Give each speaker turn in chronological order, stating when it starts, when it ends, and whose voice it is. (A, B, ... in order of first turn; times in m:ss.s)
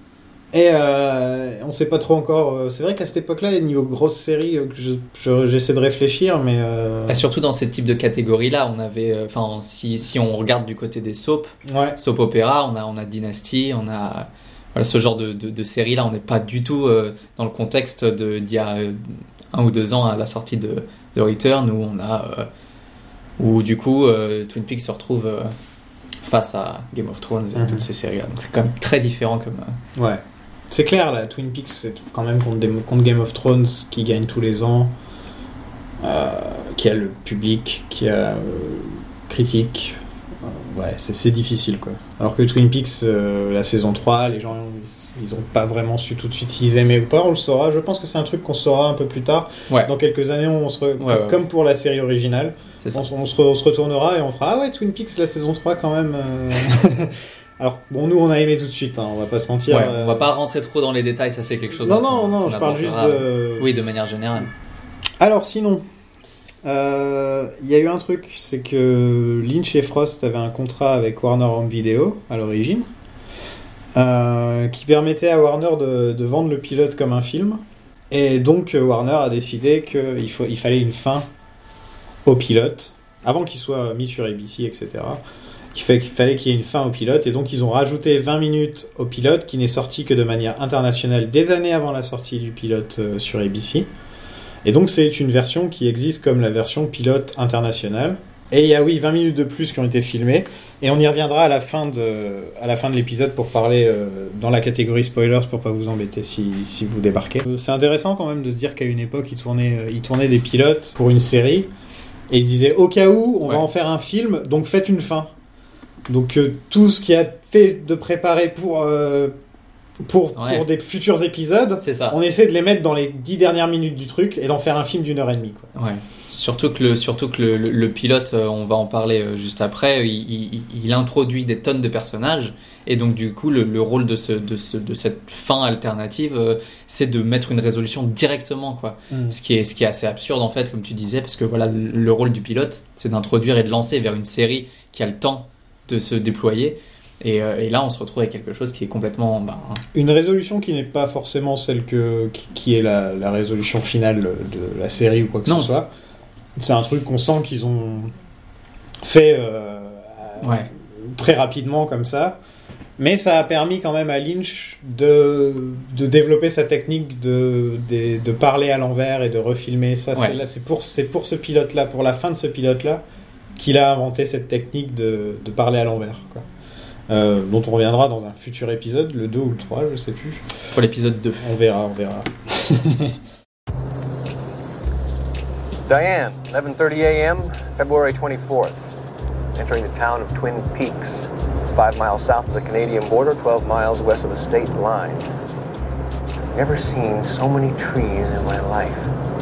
0:00.5-0:07.2 A
0:07.1-0:22.5 B
0:11.7-0:12.0 A
0:23.4-0:25.5 B
0:26.2-0:29.8 B
0:27.5-0:27.8 A
0:30.0-0:34.9 A
0:36.0-1:00.3 A
0:51.0-0:51.4 B
0:59.7-1:04.5 B
1:01.8-1:03.7 A
1:05.2-1:05.8 A
1:06.6-1:12.9 A
1:13.9-1:21.3 A
1:22.2-1:25.2 A
1:25.7-1:33.9 A
1:34.6-1:51.7 A
1:52.3-1:55.3 A
1:56.1-1:59.3 A
2:00.0-2:05.7 A
2:00.3-2:00.6 B
2:01.8-2:02.2 B
2:05.7-2:29.8 B
2:19.1-2:19.4 A
2:29.9-2:35.9 A
2:35.4-2:35.7 B
2:36.6-2:38.1 A
2:39.0-2:42.4 A
2:40.4-2:40.7 B
2:43.0-2:53.0 A
2:53.6-2:56.4 A
2:57.1-3:00.5 A
3:00.7-3:01.5 B
3:01.4-3:03.2 A
3:05.9-3:08.8 C
3:09.6-3:15.3 C
3:16.5-3:19.1 C